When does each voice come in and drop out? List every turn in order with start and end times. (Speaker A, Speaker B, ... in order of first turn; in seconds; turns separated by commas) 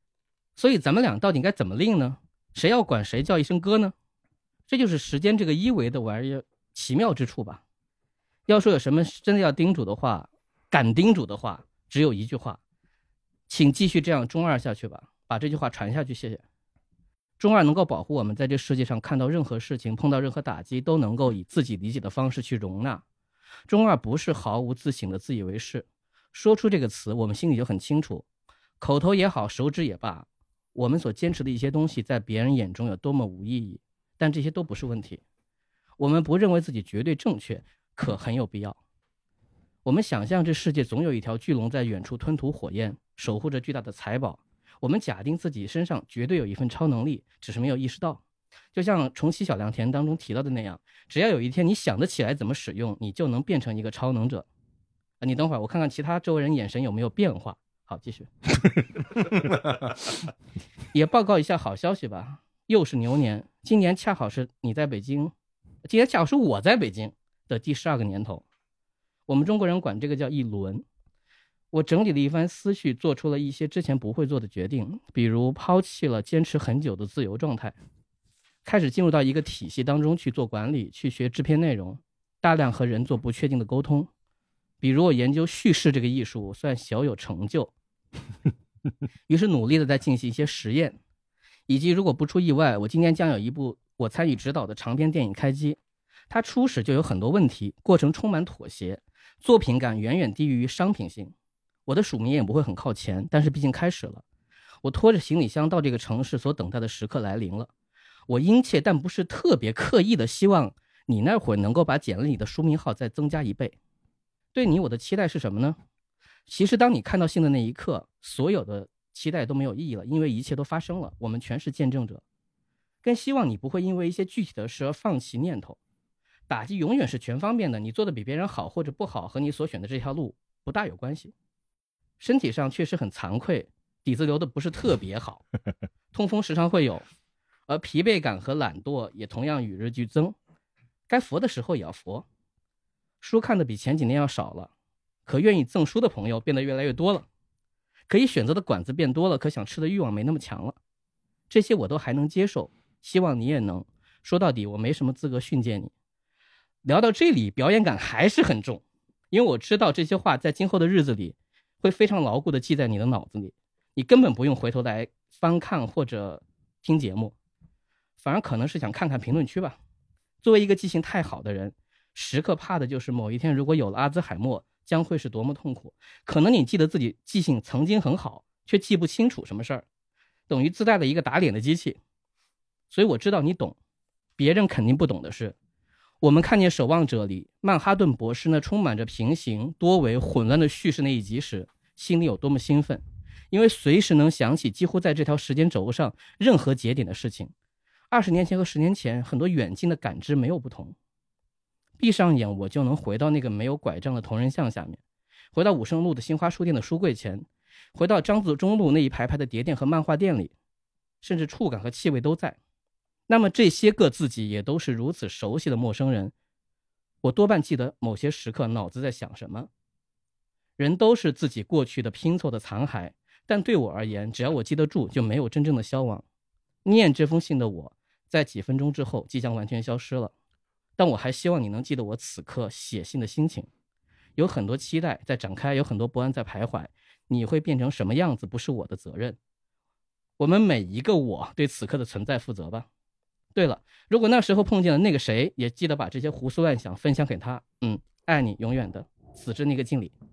Speaker A: 0.6-3.9, Speaker A: 4.7-7.6, Speaker A: 8.5-12.6, Speaker A: 13.5-16.4, Speaker A: 17.4-23.0, Speaker A: 23.7-28.2, Speaker A: 28.8-35.2, Speaker A: 36.0-38.8, Speaker A: 39.8-48.2, Speaker A: 48.7-54.5, Speaker A: 55.2-58.3, Speaker A: 60.9-65.3, Speaker A: 65.8-68.4, Speaker A: 69.3-70.8, Speaker A: 71.7-77.7, Speaker A: 78.6-84.1, Speaker A: 84.8-87.7, Speaker A: 89.3-91.0, Speaker A: 91.7-95.8, Speaker A: 96.3-101.3, Speaker A: 101.8-104.2, Speaker A: 104.8-107.7, Speaker A: 108.3-113.7, Speaker A: 114.5-115.8, Speaker A: 116.5-122.2, Speaker A: 123.0-125.8, Speaker A: 126.5-131.3, Speaker A: 132.2-135.4, Speaker A: 136.1-137.0, Speaker A: 137.7-140.3, Speaker A: 141.1-142.2, Speaker A: 143.2-144.7, Speaker A: 145.2-147.2, Speaker A: 148.1-150.8, Speaker A: 151.5-155.9, Speaker A: 156.8-167.3, Speaker A: 168.2-169.8, Speaker A: 170.4-179.8, Speaker A: 180.5-182.0, Speaker A: 182.9-183.7, Speaker A: 184.4-185.5, Speaker A: 186.2-197.5, Speaker A: 198.1-200.9, Speaker A: 202.0-205.0, Speaker A: 205.5-210.5, Speaker A: 211.2-212.6, Speaker A: 213.3-216.3, Speaker A: 217.2-219.7, Speaker A: 220.8-226.2, Speaker A: 226.8-230.3, Speaker A: 231.0-233.7, Speaker A: 234.4-239.4, Speaker A: 240.4-242.9, Speaker A: 243.5-250.1